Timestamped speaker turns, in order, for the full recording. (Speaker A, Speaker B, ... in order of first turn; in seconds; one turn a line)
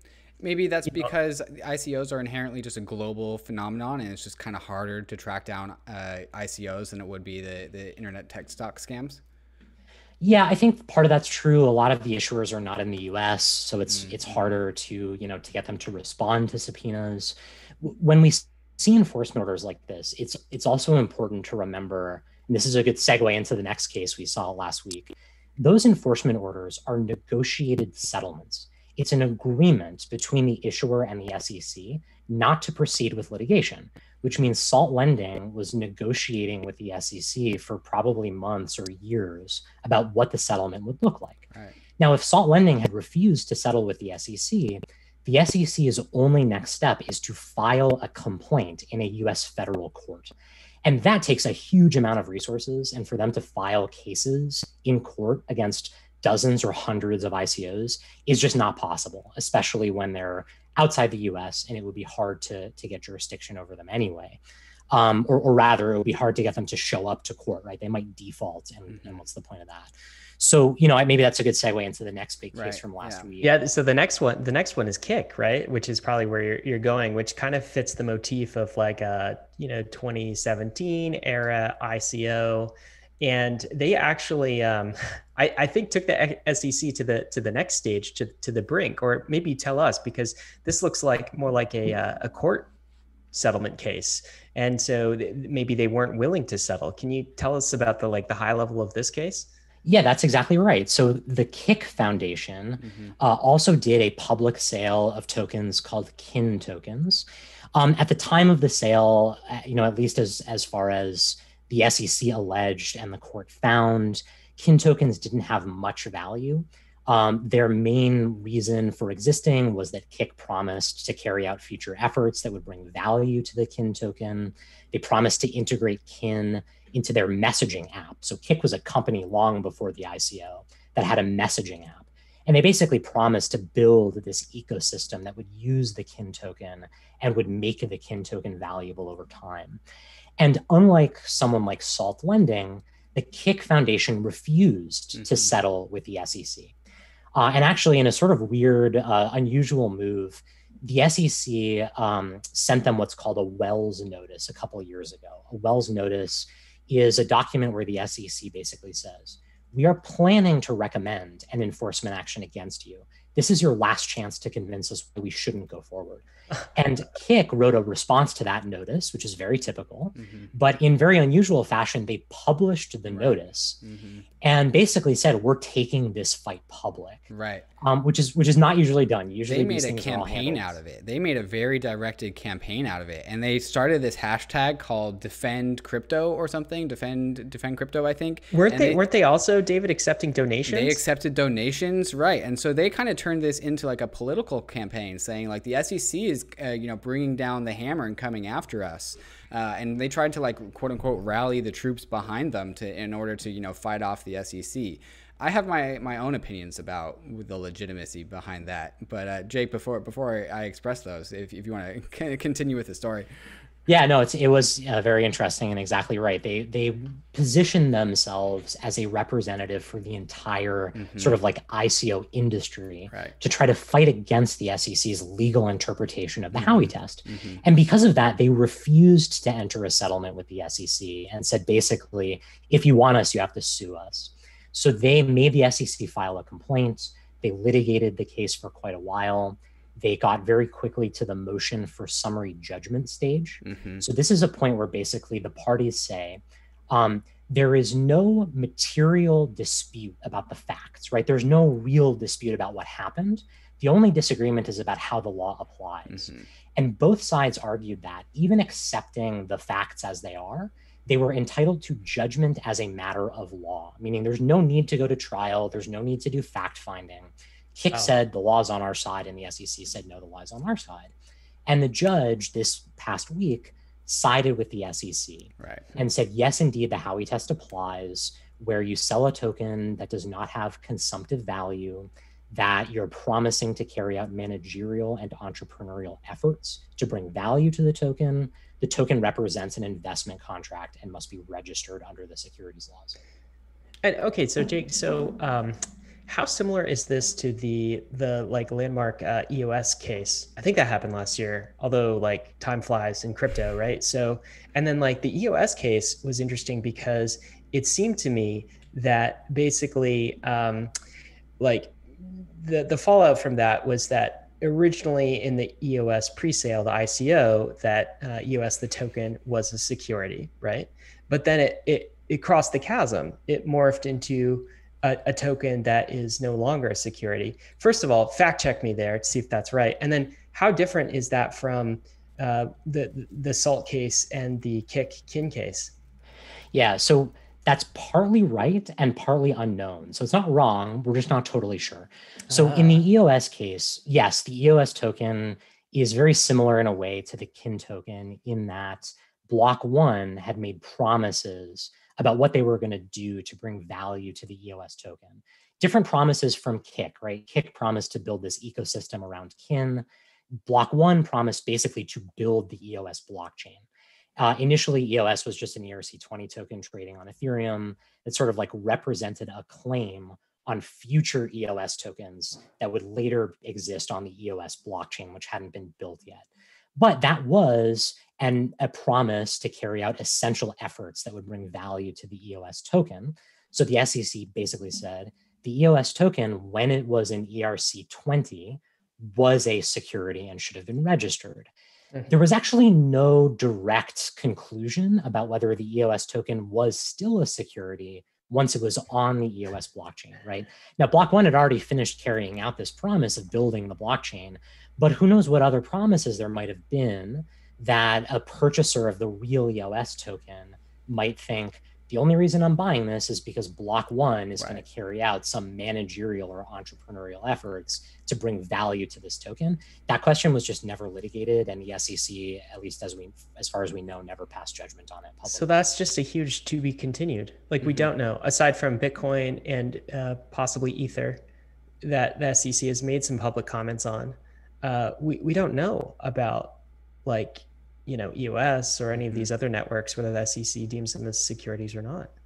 Speaker A: 0.4-9.2
Speaker B: 10.2-41.5
Speaker B: 42.0-73.5
Speaker A: 72.5-73.3
Speaker C: 73.4-92.7
Speaker C: 93.3-99.5
Speaker B: 99.8-139.8
Speaker A: 102.8-103.1
Speaker B: 140.4-146.7
Speaker B: 147.3-173.8
Speaker A: 170.2-170.5
Speaker A: 173.8-174.2
Speaker B: 174.4-177.2
Speaker A: 177.3-177.7
Speaker B: 177.8-180.8
Speaker A: 179.5-189.0
Speaker C: 188.5-191.0
Speaker A: 190.7-213.3
Speaker B: 213.9-271.1
Speaker A: 221.0-221.3
Speaker A: 226.6-227.6
Speaker A: 243.6-244.0
Speaker A: 256.1-256.4
Speaker B: 271.6-293.1
Speaker A: 275.6-275.8
Speaker C: 294.0-310.9
Speaker C: 311.6-335.9
Speaker B: 336.7-360.1
Speaker C: 342.5-343.0
Speaker B: 360.6-363.8
Speaker B: 364.4-391.7
Speaker B: 392.3-425.7
Speaker C: 425.4-431.4
Speaker A: 427.8-428.1
Speaker C: 432.0-442.3